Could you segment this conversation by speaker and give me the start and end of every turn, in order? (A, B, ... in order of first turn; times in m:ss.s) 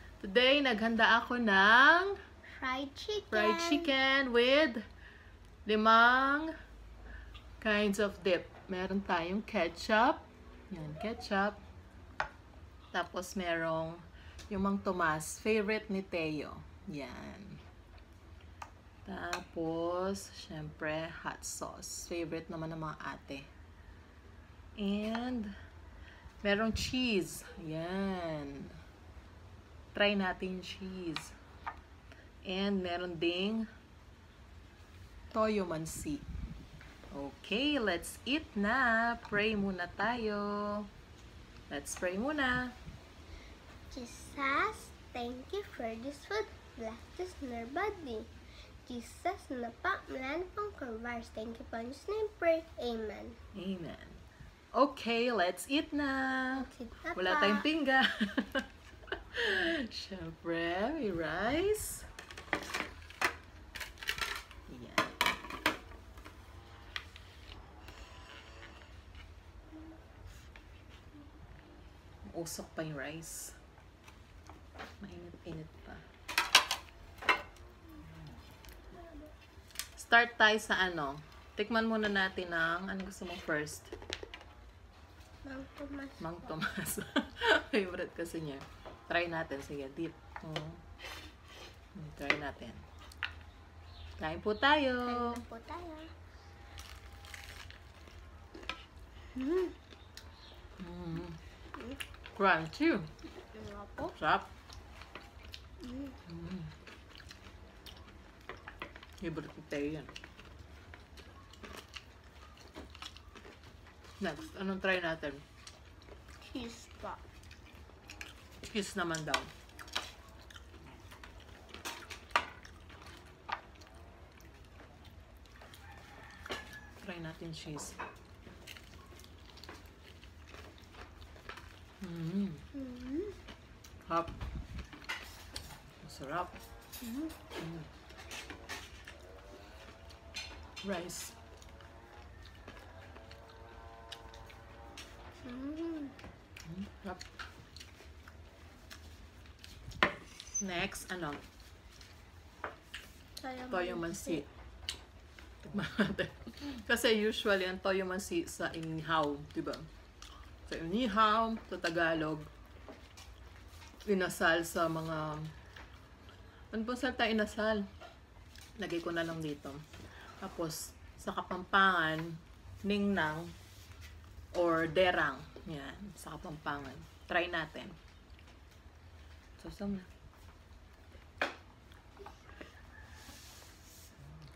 0:00.2-0:02.2 A
0:02.5-0:03.9 B
0:03.3-0:04.8 A
0:05.6-0:06.5 A
0:07.6-0:11.6 A
0:12.9-0:17.6 A
0:19.1-0:23.5 A
0:24.8-0:25.5 A
0:26.4-0:28.8 A
0:29.9-0:31.4 A
0:32.4-0:33.7 A
0:35.3-0:36.3 A
0:37.1-0:40.9 A
0:41.7-0:42.8 A
0:43.9-0:48.3 B
0:48.9-0:53.4 B
0:53.5-0:54.2 A
0:54.7-0:58.7 A
0:56.6-0:57.7 B
0:59.3-1:02.1 A
1:04.7-1:05.2 A
1:12.3-1:13.6 A
1:15.0-1:16.1 A
1:20.0-1:23.9 A
1:25.4-1:26.4 B
1:26.2-1:30.8 A
1:32.0-1:32.9 A
1:34.2-1:35.4 A
1:35.0-1:36.1 B
1:39.3-1:39.7 B
1:40.8-1:41.4 A
1:42.4-1:43.1 A
1:43.5-1:44.1 B
1:44.1-1:44.5 A
1:45.8-1:46.2 B
1:46.3-1:46.7 A
1:49.2-1:50.1 A
1:54.2-1:55.4 A
1:56.4-1:57.2 B
1:58.6-1:59.5 A
2:07.0-2:08.0 A
2:12.0-2:12.7 A
2:12.7-2:13.4 B
2:14.1-2:14.3 A
2:16.0-2:16.6 A
2:17.0-2:17.3 B
2:17.6-2:17.9 A
2:20.8-2:21.4 A
2:25.4-2:26.1 B
2:26.6-2:27.2 A
2:30.6-2:31.4 A
2:33.4-2:34.4 B
2:33.7-2:34.5 A
2:35.6-2:39.9 A
2:40.7-2:42.5 A
2:44.0-2:45.5 A
2:46.7-2:47.8 A
2:48.8-2:49.8 A
2:50.4-2:53.5 A
2:54.5-2:58.0 A
2:59.6-3:00.1 A